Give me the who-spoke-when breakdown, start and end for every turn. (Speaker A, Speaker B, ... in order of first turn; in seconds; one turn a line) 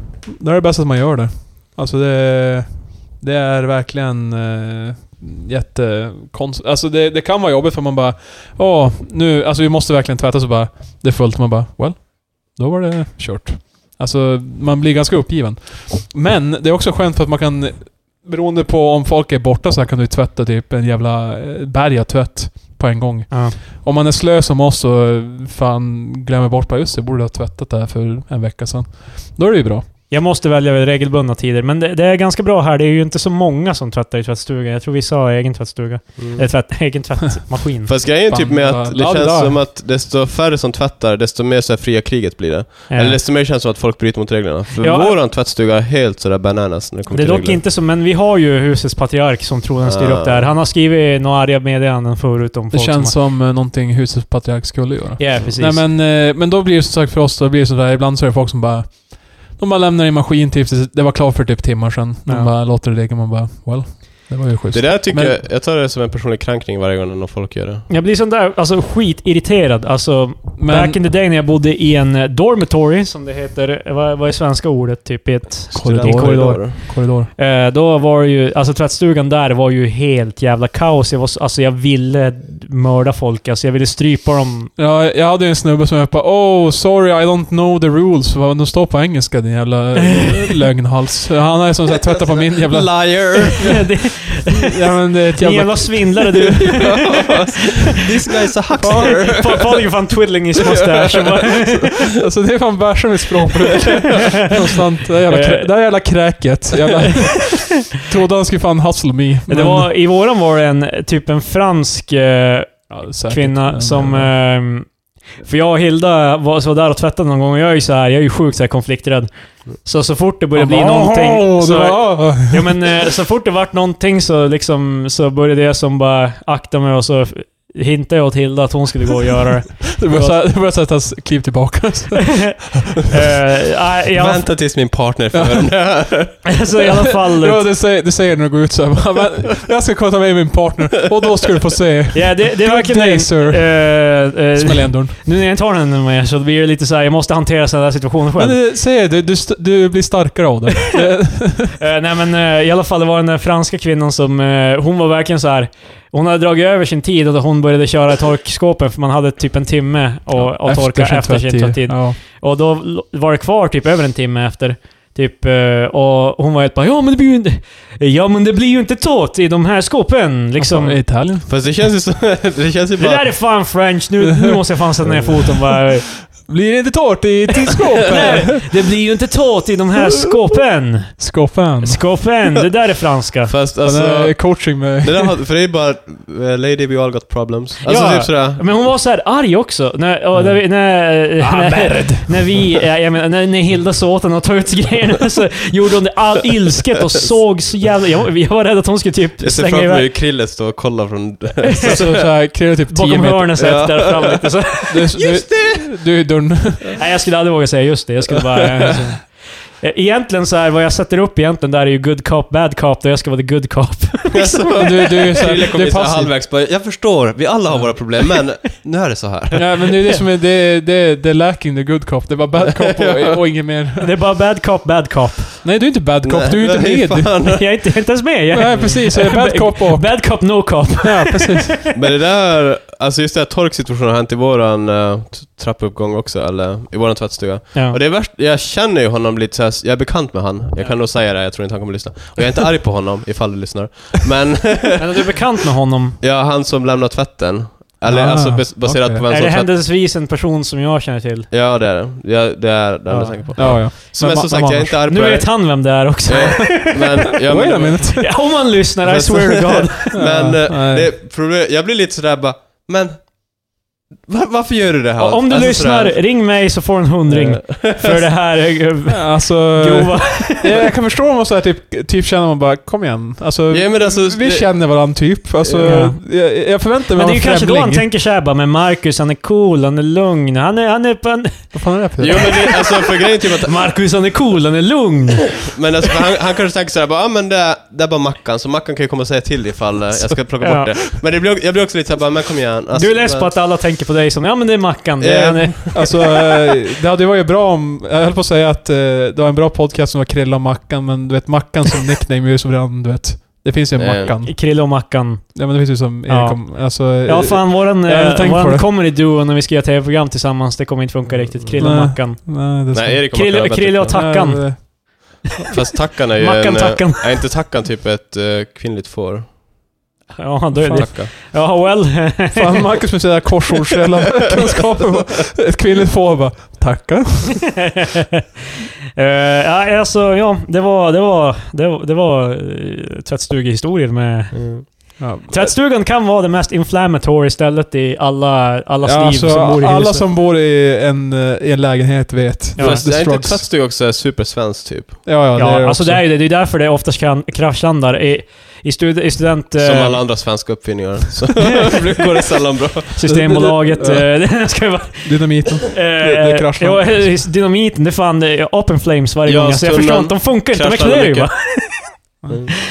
Speaker A: 0.3-29.9
Speaker B: 23.3-23.6
Speaker B: 30.1-37.9
Speaker C: 36.2-36.5
Speaker C: 37.9-47.6
Speaker A: 38.2-39.6
Speaker B: 42.9-43.2
Speaker B: 44.8-45.1
Speaker B: 47.1-53.1
Speaker C: 49.8-50.5
Speaker A: 52.7-65.4
Speaker B: 55.2-55.8
Speaker B: 62.2-62.5
Speaker C: 64.7-67.8
Speaker B: 67.9-84.7
Speaker A: 70.6-71.0
Speaker C: 75.7-76.8
Speaker A: 75.7-77.3
Speaker A: 84.8-93.8
Speaker C: 92.1-93.8
Speaker B: 93.6-94.7
Speaker A: 94.5-96.5
Speaker B: 95.4-97.9
Speaker C: 96.6-99.9
Speaker A: 98.8-99.4
Speaker B: 98.8-102.1
Speaker C: 100.5-102.0
Speaker A: 102.1-109.9
Speaker B: 105.3-105.7
Speaker B: 109.5-130.4
Speaker A: 112.9-114.3
Speaker A: 120.5-122.9
Speaker A: 129.9-132.7
Speaker B: 132.3-134.5
Speaker C: 134.1-136.6
Speaker A: 135.3-136.3
Speaker B: 136.5-137.7
Speaker A: 137.3-145.2
Speaker B: 142.1-148.6
Speaker A: 148.4-151.8
Speaker B: 151.8-171.1
Speaker A: 160.3-162.2
Speaker A: 170.6-171.5
Speaker C: 171.4-173.4
Speaker B: 173.0-176.3
Speaker A: 174.2-174.6
Speaker C: 175.0-175.3
Speaker A: 176.3-178.8
Speaker B: 177.9-183.5
Speaker A: 181.2-182.1
Speaker C: 183.5-188.7
Speaker A: 183.8-185.3
Speaker B: 187.8-200.1
Speaker A: 191.4-192.8
Speaker C: 199.4-202.2
Speaker B: 201.6-202.3
Speaker A: 201.8-203.6
Speaker B: 202.9-205.1
Speaker C: 203.6-206.0
Speaker A: 204.9-206.9
Speaker B: 206.9-215.4
Speaker C: 208.3-209.1
Speaker C: 214.3-219.8
Speaker A: 214.7-216.3
Speaker A: 219.5-224.1
Speaker C: 222.7-223.4
Speaker B: 224.0-225.6
Speaker A: 225.6-227.3
Speaker C: 226.2-227.9
Speaker B: 227.4-231.9
Speaker A: 228.5-231.7
Speaker C: 231.9-245.3
Speaker B: 245.0-246.2
Speaker C: 246.2-249.7
Speaker A: 248.0-249.3
Speaker B: 249.3-251.5
Speaker C: 251.5-258.5
Speaker B: 253.1-253.9
Speaker A: 253.6-255.0
Speaker B: 255.1-257.3
Speaker A: 257.4-258.3
Speaker B: 258.1-260.4
Speaker C: 259.0-266.2
Speaker A: 260.1-261.1
Speaker B: 265.2-270.7
Speaker C: 267.3-268.3
Speaker A: 269.1-278.1
Speaker C: 273.7-274.9
Speaker C: 275.6-276.1
Speaker B: 275.8-285.8
Speaker A: 281.7-282.5
Speaker C: 282.2-283.9
Speaker C: 285.6-293.5
Speaker B: 290.6-291.0
Speaker B: 292.9-296.2
Speaker C: 295.2-296.1
Speaker A: 295.9-308.9
Speaker C: 303.9-304.3
Speaker B: 304.4-312.6
Speaker C: 311.3-311.9
Speaker A: 311.8-313.4
Speaker C: 312.9-314.4
Speaker B: 313.3-317.5
Speaker A: 314.1-315.0
Speaker C: 315.7-319.6
Speaker B: 320.4-322.8
Speaker A: 320.7-321.1
Speaker C: 320.9-321.3
Speaker A: 322.5-327.8
Speaker B: 329.1-340.2
Speaker C: 334.5-334.9
Speaker A: 335.2-335.8
Speaker A: 339.0-343.7
Speaker B: 342.8-343.0
Speaker C: 342.8-345.2
Speaker A: 345.2-346.3
Speaker B: 345.5-350.8
Speaker C: 349.8-353.1
Speaker B: 353.1-362.2
Speaker A: 353.2-357.5
Speaker C: 359.4-361.6
Speaker C: 362.5-362.7